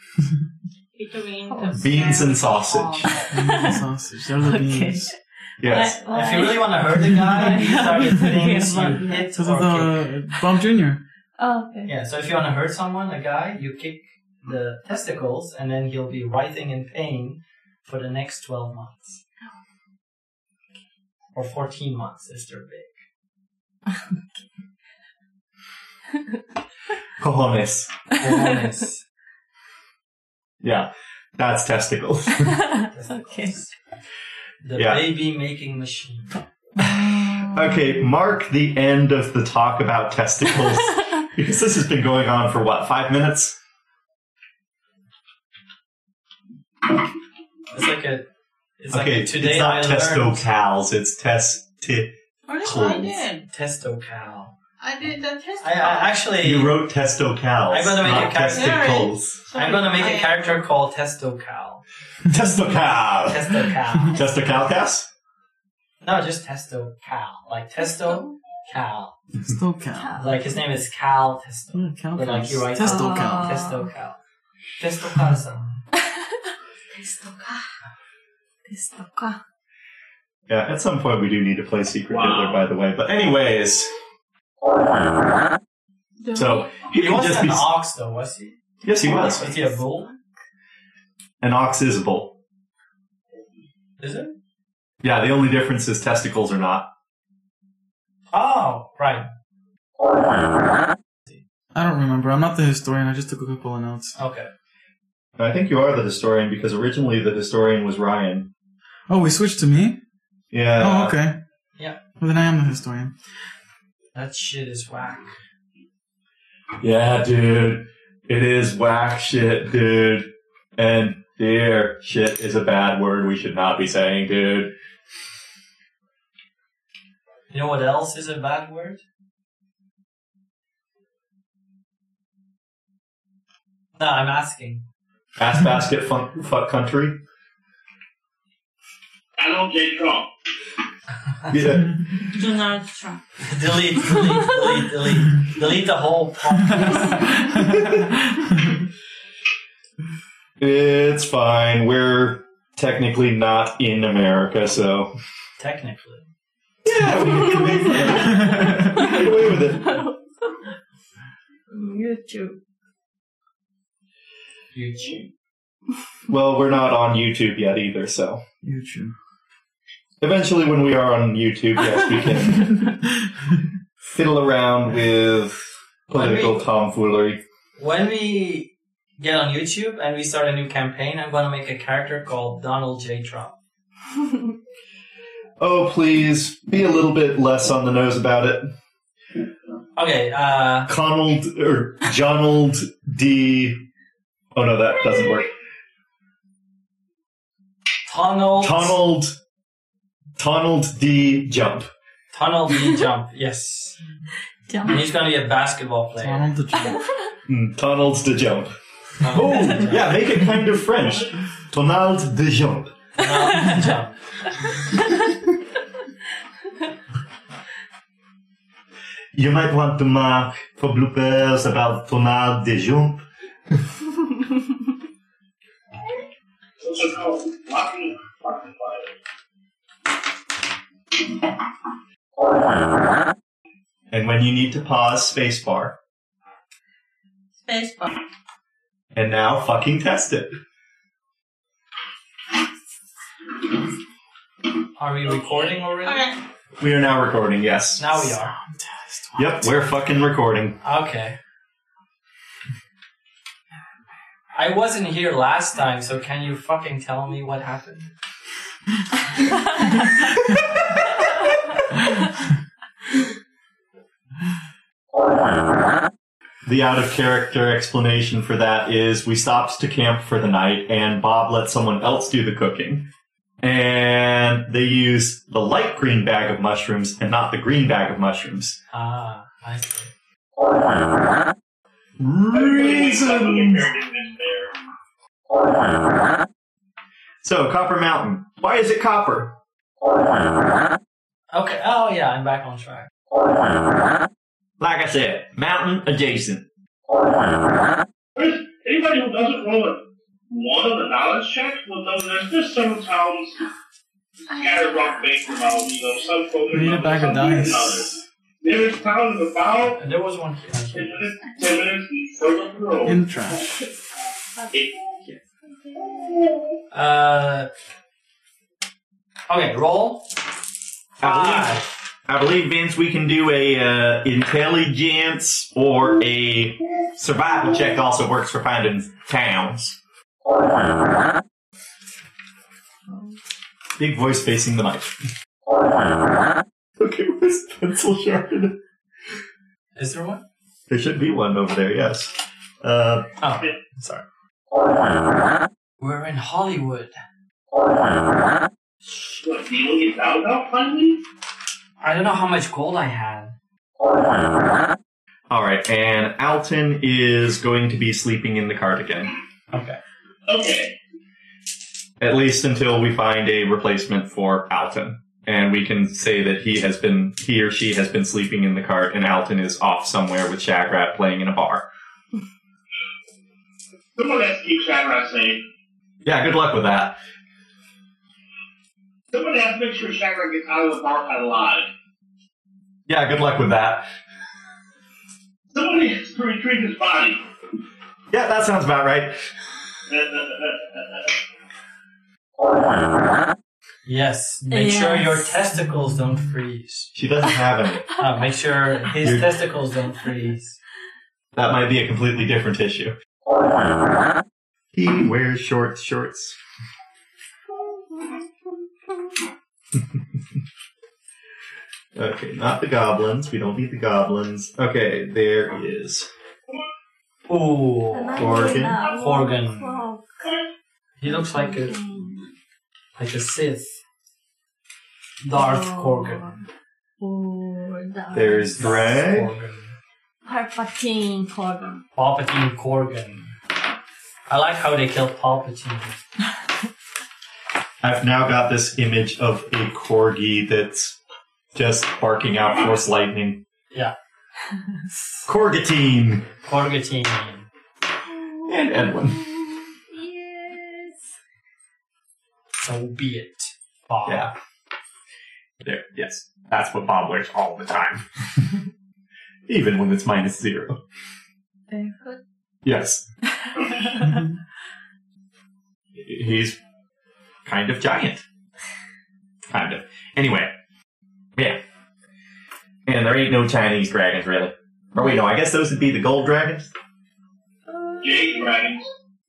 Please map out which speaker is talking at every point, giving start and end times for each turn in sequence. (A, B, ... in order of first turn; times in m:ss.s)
0:01.0-0:03.2 A
0:01.4-0:02.4 B
0:01.8-0:03.1 C
0:03.0-0:03.8 B
0:03.3-0:05.1 D
0:04.4-0:09.2 B
0:05.6-0:06.5 C
0:06.1-0:10.0 E
0:09.3-0:11.0 D
0:11.4-0:11.9 B
0:11.9-0:19.2 E
0:21.4-0:22.9 E
0:27.2-0:27.9 C
0:28.2-0:29.0 E
0:30.6-0:32.6 C
0:32.4-0:33.6 B
0:32.9-0:33.7 E
0:34.6-0:36.4 E
0:34.8-0:35.1 C
0:37.2-0:37.5 B
0:37.5-0:43.6 C
0:47.7-0:48.2 E
0:48.8-0:50.4 E
0:48.9-0:53.2 C
0:52.5-0:53.5 A
0:53.5-0:54.5 E
0:54.8-0:56.2 A
0:55.6-0:56.8 E
0:56.4-0:59.4 C
0:57.7-0:58.8 E
0:58.1-1:00.6 A
0:59.5-1:01.8 E
1:02.3-1:03.5 C
1:03.3-1:04.4 E
1:04.1-1:05.1 C
1:06.0-1:09.2 E
1:07.9-1:08.4 B
1:09.4-1:10.2 D
1:09.9-1:10.5 B
1:10.2-1:14.2 E
1:11.7-1:13.6 D
1:12.8-1:13.9 B
1:14.8-1:15.8 E
1:16.9-1:17.7 B
1:18.7-1:19.4 B
1:20.5-1:23.9 C
1:22.1-1:22.7 F
1:26.2-1:26.7 B
1:26.3-1:27.7 C
1:26.9-1:30.1 E
1:28.8-1:29.7 C
1:31.4-1:32.4 C
1:34.0-1:34.4 E
1:35.0-1:36.9 C
1:38.3-1:39.3 E
1:41.7-1:44.2 D
1:44.2-1:44.5 E
1:45.4-1:48.5 C
1:49.1-1:50.0 D
1:50.5-1:51.2 C
1:50.8-1:51.4 D
1:52.2-1:53.2 D
1:54.2-1:55.4 E
1:56.8-2:04.7 C
2:07.5-2:09.0 E
2:14.0-2:14.8 E
2:15.4-2:17.2 C
2:19.4-2:20.3 F
2:21.5-2:21.9 C
2:22.3-2:23.3 A
2:23.4-2:27.4 E
2:30.6-2:35.1 C
2:35.6-2:36.2 E
2:36.8-2:40.0 C
2:37.3-2:40.2 B
2:38.4-2:38.9 D
2:41.7-2:42.6 B
2:44.7-2:45.3 E
2:46.3-2:48.4 C
2:48.6-2:49.1 D
2:50.2-2:52.8 C
2:54.1-2:57.4 C
2:56.1-2:56.7 E
2:57.8-3:03.6 E
3:05.6-3:08.7 C
3:10.0-3:10.9 E
3:10.9-3:13.8 C
3:14.5-3:15.5 C
3:18.1-3:19.0 E
3:18.6-3:19.4 C
3:20.4-3:21.9 C
3:22.3-3:24.0 E
3:24.7-3:25.1 B
3:24.9-3:26.5 E
3:26.2-3:27.0 D
3:27.5-3:28.7 C
3:29.2-3:30.1 E
3:29.2-3:32.9 C
3:31.0-3:31.3 F
3:33.2-3:34.1 E
3:39.3-3:43.3 C
3:46.8-3:49.2 F
3:54.1-3:56.0 C
3:57.6-3:58.2 A
3:59.1-4:00.5 C
4:05.0-4:06.2 E
4:06.0-4:06.4 A
4:06.8-4:08.3 C
4:08.0-4:08.6 E
4:08.4-4:09.7 D
4:09.4-4:10.8 C
4:10.8-4:11.4 E
4:14.6-4:18.1 E
4:26.6-4:33.1 C
4:33.6-4:38.8 C
4:38.9-4:40.1 E
4:42.2-4:43.9 C
4:42.5-4:44.7 F
4:47.4-4:49.6 C
4:51.5-4:53.1 E
4:54.8-4:56.7 C
4:58.4-5:03.6 F
5:04.5-5:10.0 F
5:06.7-5:08.2 D
5:10.0-5:11.2 E
5:10.9-5:13.3 F
5:13.0-5:13.8 D
5:16.9-5:17.7 E
5:19.5-5:20.3 E
5:21.2-5:30.0 C
5:21.2-5:21.9 E
5:34.0-5:35.2 C
5:37.0-5:38.8 C
5:40.0-5:40.4 E
5:40.9-5:43.3 C
5:43.4-5:44.2 E
5:46.0-5:47.1 E
5:49.2-5:51.2 F
5:52.0-5:53.5 E
5:55.5-5:59.4 C
5:59.7-6:00.0 E
6:00.5-6:01.0 F
6:02.2-6:11.9 C
6:14.2-6:15.6 F
6:16.2-6:17.2 C
6:19.3-6:21.9 F
6:23.1-6:24.1 C
6:25.7-6:27.4 F
6:28.3-6:29.4 C
6:30.1-6:31.4 F
6:34.0-6:37.1 E
6:34.7-6:35.5 B
6:37.2-6:38.1 C
6:38.2-6:40.8 E
6:39.2-6:39.5 C
6:41.6-6:43.1 C
6:44.9-6:46.6 C
6:52.2-6:56.3 C
6:57.5-6:59.9 E
6:58.1-7:00.5 B
6:58.3-6:59.0 C
7:01.2-7:02.0 E
7:01.3-7:02.5 B
7:03.2-7:03.9 E
7:05.4-7:06.5 E
7:05.5-7:06.6 B
7:07.2-7:08.9 B
7:08.3-7:09.5 C
7:08.8-7:09.9 E
7:10.4-7:12.0 B
7:12.2-7:13.5 E
7:14.5-7:16.2 E
7:18.0-7:21.2 C
7:21.7-7:23.6 C
7:25.5-7:26.5 C
7:26.7-7:27.7 E
7:28.6-7:29.4 C
7:30.1-7:31.2 B
7:32.8-7:34.5 E
7:34.3-7:34.5 C
7:35.8-7:38.2 C
7:39.7-7:41.0 C
7:41.9-7:42.4 B
7:42.8-7:43.2 C
7:43.6-7:44.4 B
7:46.2-7:46.8 C
7:47.6-7:48.4 C
7:49.7-7:50.7 C
7:53.1-7:56.9 C
7:58.2-7:59.1 F